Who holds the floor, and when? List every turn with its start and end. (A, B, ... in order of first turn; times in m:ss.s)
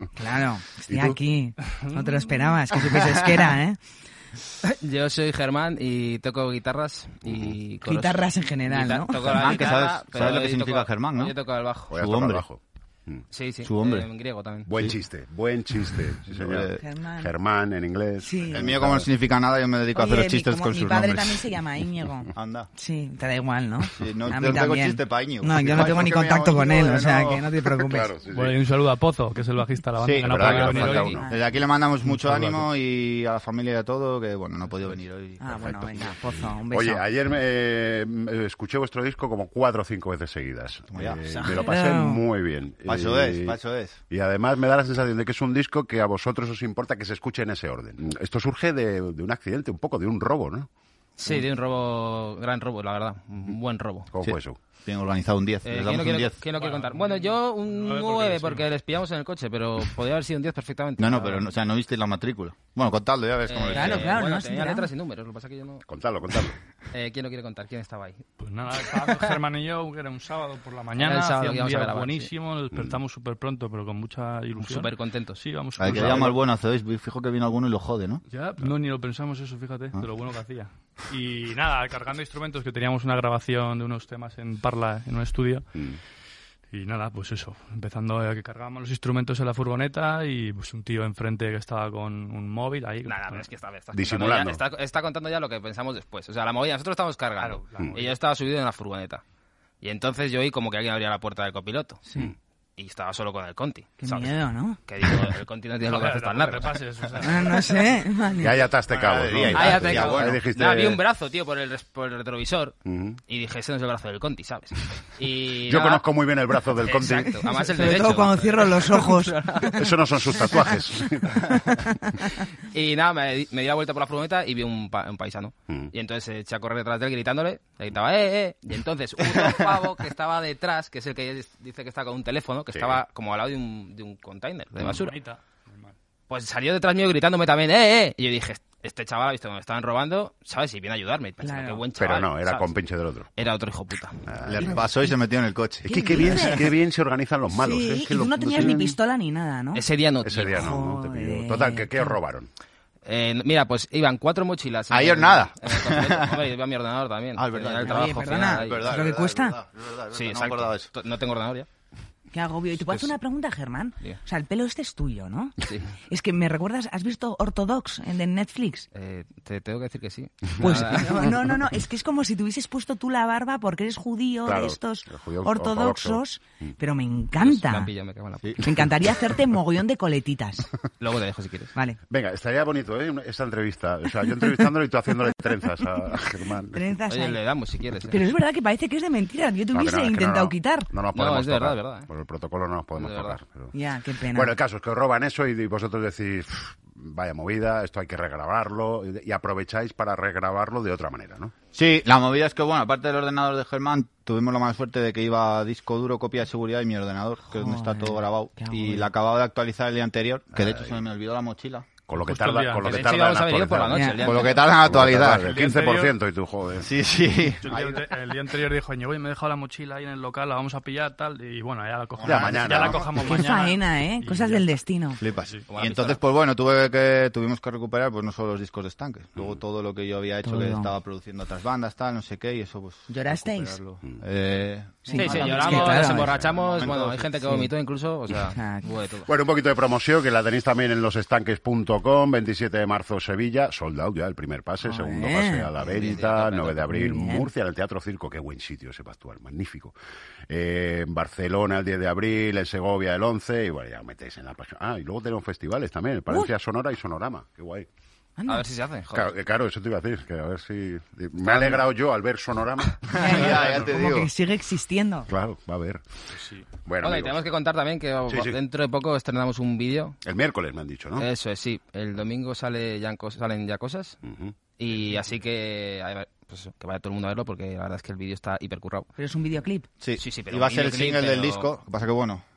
0:00.2-0:03.8 A
0:00.9-0:01.2 B
0:01.6-0:02.5 C
0:04.6-0:11.9 D
0:07.2-0:07.6 B
0:07.8-0:09.6 A
0:09.3-0:11.4 E
0:11.9-0:12.4 E
0:11.9-0:13.2 B
0:13.3-0:14.7 D
0:13.6-0:14.1 E
0:14.7-0:19.1 B
0:16.3-0:16.8 E
0:16.8-0:17.3 A
0:18.2-0:18.6 A
0:18.5-0:21.5 E
0:19.9-0:28.1 A
0:22.3-0:22.7 E
0:24.0-0:27.6 E
0:27.8-0:28.6 B
0:28.3-0:31.2 C
0:30.0-0:36.1 E
0:30.2-0:31.3 B
0:30.4-0:31.2 D
0:31.2-0:31.4 A
0:32.2-0:32.6 C
0:35.4-0:37.0 A
0:36.7-0:43.6 B
0:40.9-0:41.6 E
0:41.4-0:42.2 A
0:42.8-0:44.0 E
0:44.1-0:50.7 B
0:51.2-0:54.1 D
0:54.1-0:54.6 B
0:54.2-0:56.4 E
0:55.6-1:01.4 D
0:56.5-0:58.7 C
1:01.0-1:04.2 E
1:03.5-1:05.8 D
1:03.7-1:04.9 A
1:05.9-1:06.6 B
1:06.9-1:08.2 D
1:08.4-1:16.4 C
1:09.0-1:09.3 D
1:11.0-1:12.3 D
1:12.7-1:13.0 B
1:14.6-1:16.3 D
1:15.8-1:18.2 E
1:18.3-1:25.7 C
1:25.7-1:26.0 B
1:26.7-1:33.5 C
1:33.0-1:39.2 D
1:33.9-1:34.6 B
1:37.4-1:38.1 C
1:39.8-1:42.0 D
1:42.1-1:42.3 A
1:42.8-1:46.8 D
1:44.0-1:44.8 A
1:45.8-1:48.0 C
1:47.2-1:48.6 A
1:48.4-1:51.0 B
1:48.9-1:50.5 E
1:49.5-1:56.0 D
1:52.8-1:53.2 B
1:55.6-1:57.4 B
1:56.8-1:59.9 D
1:57.4-1:59.7 A
1:59.8-2:01.6 B
2:02.7-2:15.2 D
2:12.7-2:13.0 B
2:15.0-2:15.9 C
2:16.3-2:22.7 D
2:21.4-2:21.8 A
2:22.0-2:23.3 B
2:23.4-2:24.2 D
2:24.3-2:24.8 B
2:24.4-2:26.6 E
2:25.8-2:28.9 B
2:25.9-2:26.7 A
2:27.5-2:29.8 A
2:29.7-2:30.7 D
2:30.2-2:32.5 B
2:30.5-2:32.2 A
2:33.0-2:39.1 D
2:34.9-2:36.5 E
2:37.4-2:40.9 E
2:37.8-2:39.6 A
2:40.1-2:41.7 D
2:42.3-2:45.6 A
2:46.1-2:48.9 A
2:48.9-2:51.5 D
2:50.6-2:57.9 A
2:54.4-2:56.7 B
2:57.4-2:58.8 D
2:58.6-3:00.7 A
3:01.0-3:01.7 D
3:02.1-3:06.9 B
3:06.7-3:07.4 A
3:07.1-3:08.2 D
3:08.1-3:10.9 A
3:09.7-3:13.7 B
3:11.1-3:12.1 D
3:13.0-3:13.4 D
3:13.7-3:14.6 A
3:14.3-3:21.5 B
3:21.7-3:31.9 E
3:27.4-3:29.1 A
3:30.6-3:30.9 B
3:32.1-3:34.1 B
3:32.2-3:33.1 C
3:32.8-3:34.7 D
3:33.9-3:34.3 A
3:34.2-3:35.6 E
3:34.8-3:36.9 B
3:35.3-3:36.2 C
3:36.8-3:38.1 E
3:37.6-3:44.6 C
3:42.2-3:43.4 E
3:42.2-3:43.2 B
3:43.2-3:45.2 A
3:45.2-3:57.3 E
3:45.3-3:45.6 C
3:45.7-3:46.2 D
3:50.4-3:50.9 A
3:53.1-3:53.8 A
3:55.0-3:56.4 A
3:55.1-3:59.3 D
3:58.5-3:58.9 A
3:59.3-4:09.9 B
4:04.8-4:06.1 A
4:05.8-4:06.9 D
4:06.9-4:07.5 A
4:10.5-4:17.9 B
4:18.4-4:18.7 A
4:18.5-4:19.3 D
4:19.1-4:23.0 B
4:23.1-4:24.3 E
4:23.1-4:25.3 A
4:25.3-4:26.1 B
4:26.3-4:26.6 C
4:26.8-4:27.4 B
4:27.0-4:30.2 D
4:28.3-4:28.5 B
4:30.2-4:31.2 B
4:31.2-4:34.2 D
4:34.2-4:34.6 B
4:34.8-4:39.1 D
4:39.2-4:39.9 A
4:40.0-4:42.4 E
4:40.2-4:41.7 D